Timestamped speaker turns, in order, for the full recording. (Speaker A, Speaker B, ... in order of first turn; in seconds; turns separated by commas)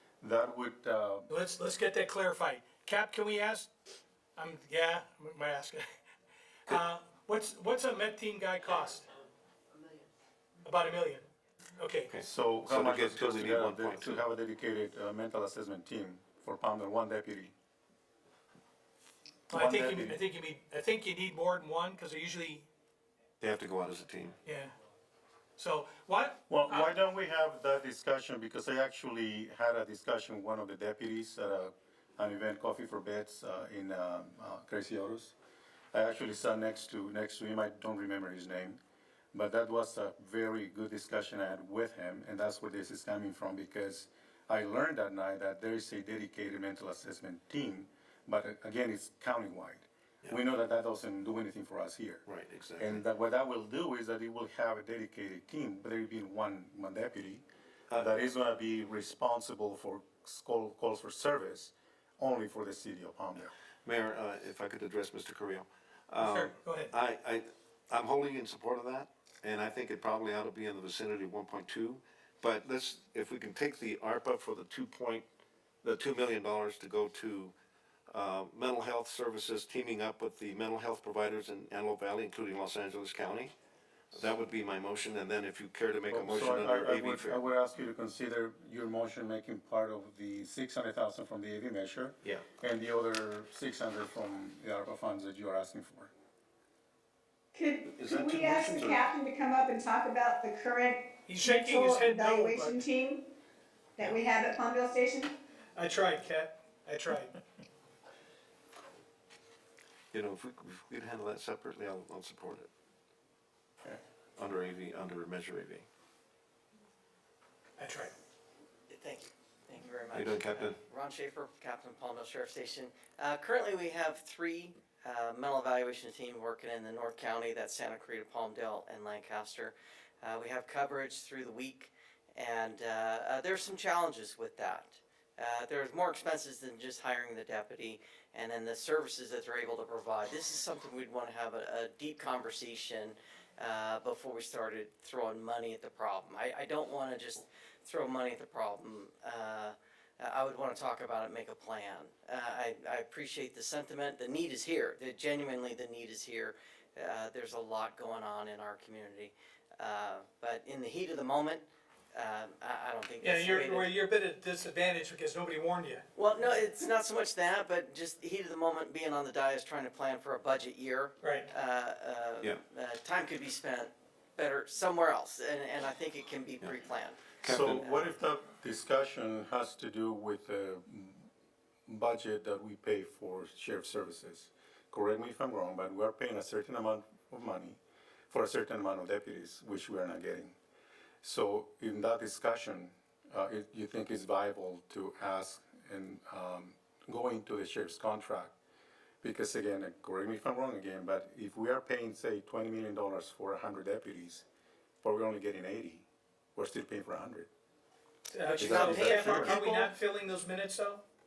Speaker A: 0.2-1.3, Speaker B: 1.3-3.7, Speaker B: 4.4-5.8, Speaker B: 6.7-9.1, Speaker B: 10.6-12.1, Speaker C: 12.1-14.2, Speaker A: 12.2-17.5, Speaker B: 19.5-22.7, Speaker A: 19.5-20.2, Speaker C: 23.4-24.4, Speaker B: 24.4-24.8, Speaker B: 25.6-26.9, Speaker A: 26.5-35.3, Speaker A: 35.9-38.8, Speaker A: 39.3-52.2, Speaker C: 52.3-53.0, Speaker A: 52.8-63.5, Speaker C: 63.9-75.3, Speaker B: 66.2-66.9, Speaker C: 75.8-77.5, Speaker C: 78.1-83.5, Speaker C: 84.1-87.4, Speaker A: 86.1-96.1, Speaker D: 97.5-103.3, Speaker C: 97.9-99.1, Speaker B: 101.3-102.8, Speaker D: 104.0-105.3, Speaker B: 105.8-107.4, Speaker C: 110.1-112.7, Speaker C: 114.4-115.9, Speaker B: 117.8-118.1, Speaker E: 118.9-163.9, Speaker C: 120.1-120.8, Speaker B: 163.2-166.1, Speaker E: 166.2-178.1, Speaker B: 171.2-171.5, Speaker C: 177.4-177.8, Speaker A: 177.4-181.3, Speaker A: 181.9-190.6, Speaker A: 191.2-198.5, Speaker A: 199.2-204.4, Speaker A: 205.0-207.5, Speaker B: 208.3-211.0, Speaker E: 208.4-209.7, Speaker A: 208.6-209.9